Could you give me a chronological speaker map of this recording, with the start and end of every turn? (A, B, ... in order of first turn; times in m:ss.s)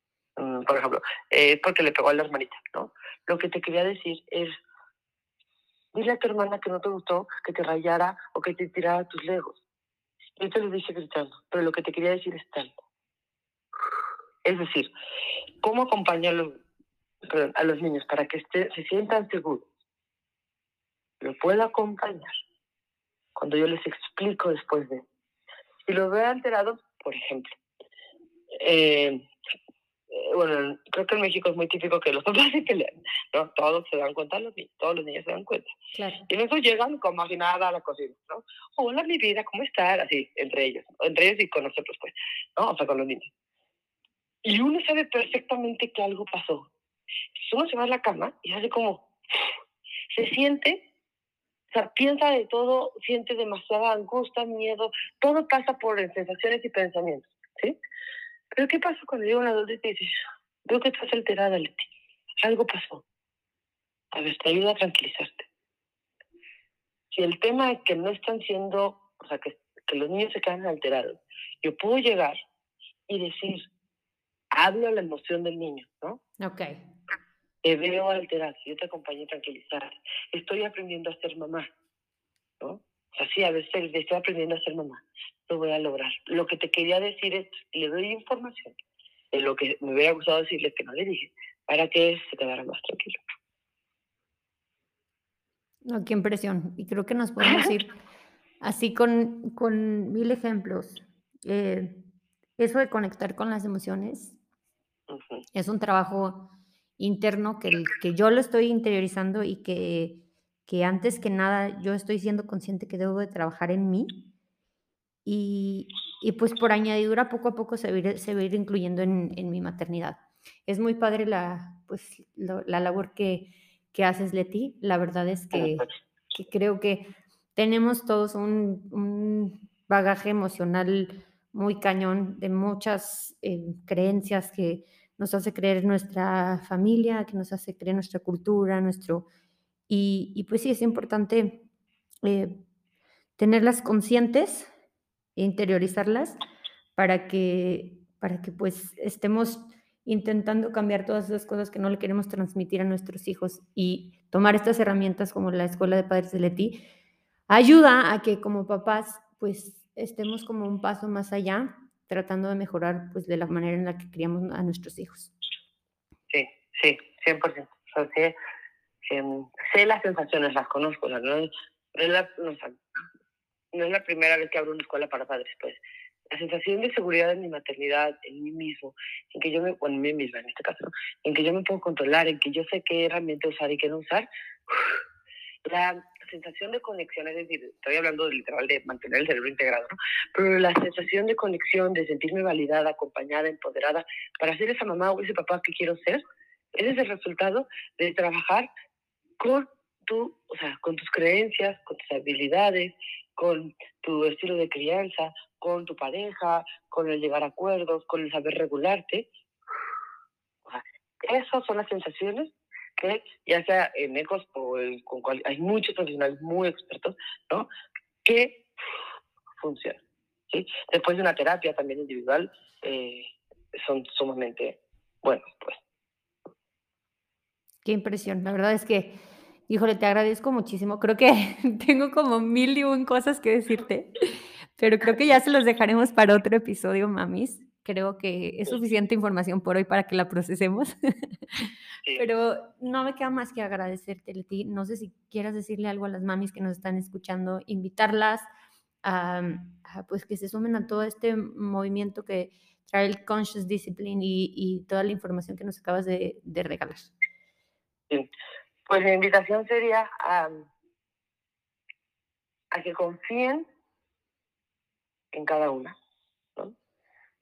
0:00.4-0:04.5 A
0:05.9-0:09.6 A
0:10.4-0:12.7 A
0:14.4-0:14.9 A
0:15.6-0:16.6 A
0:17.2-0:19.6 A
0:21.2-0:22.3 A
0:23.4-0:25.0 A
0:25.9-0:27.6 A
0:28.5-0:29.3 A
0:30.1-0:35.7 A
0:35.9-0:36.3 B
0:36.3-0:43.3 A
0:44.4-0:46.7 A
0:47.4-0:49.5 A
0:50.1-0:50.8 A
0:51.7-0:57.8 A
0:58.5-1:00.1 A
1:00.6-1:01.9 A
1:02.4-1:03.0 A
1:04.1-1:05.5 A
1:07.1-1:12.4 A
1:13.1-1:13.7 A
1:14.5-1:16.2 A
1:16.4-1:16.8 B
1:17.6-1:21.7 A
1:22.6-1:28.8 A
1:29.3-1:33.2 A
1:35.8-1:37.9 B
1:37.4-1:37.7 A
1:38.6-1:42.0 B
1:42.6-1:44.4 B
1:45.1-1:45.4 A
1:45.5-1:54.3 B
1:55.2-2:19.3 B
2:05.5-2:05.9 A
2:19.9-2:21.6 B
2:22.2-2:22.6 B
2:23.4-2:24.7 B
2:25.4-2:26.4 B
2:27.0-2:36.8 B
2:37.5-2:45.3 B
2:46.3-2:48.4 A
2:49.1-2:52.8 A
2:53.7-3:05.0 A
3:05.7-3:16.2 A
3:16.7-3:18.7 A
3:19.4-3:29.3 A
3:30.6-3:37.7 A
3:38.2-3:38.6 A
3:39.6-3:45.8 A
3:47.8-4:00.9 B
4:02.2-4:08.5 B
4:09.0-4:17.1 B
4:18.9-4:20.7 A
4:22.7-4:23.7 A
4:25.3-4:26.0 A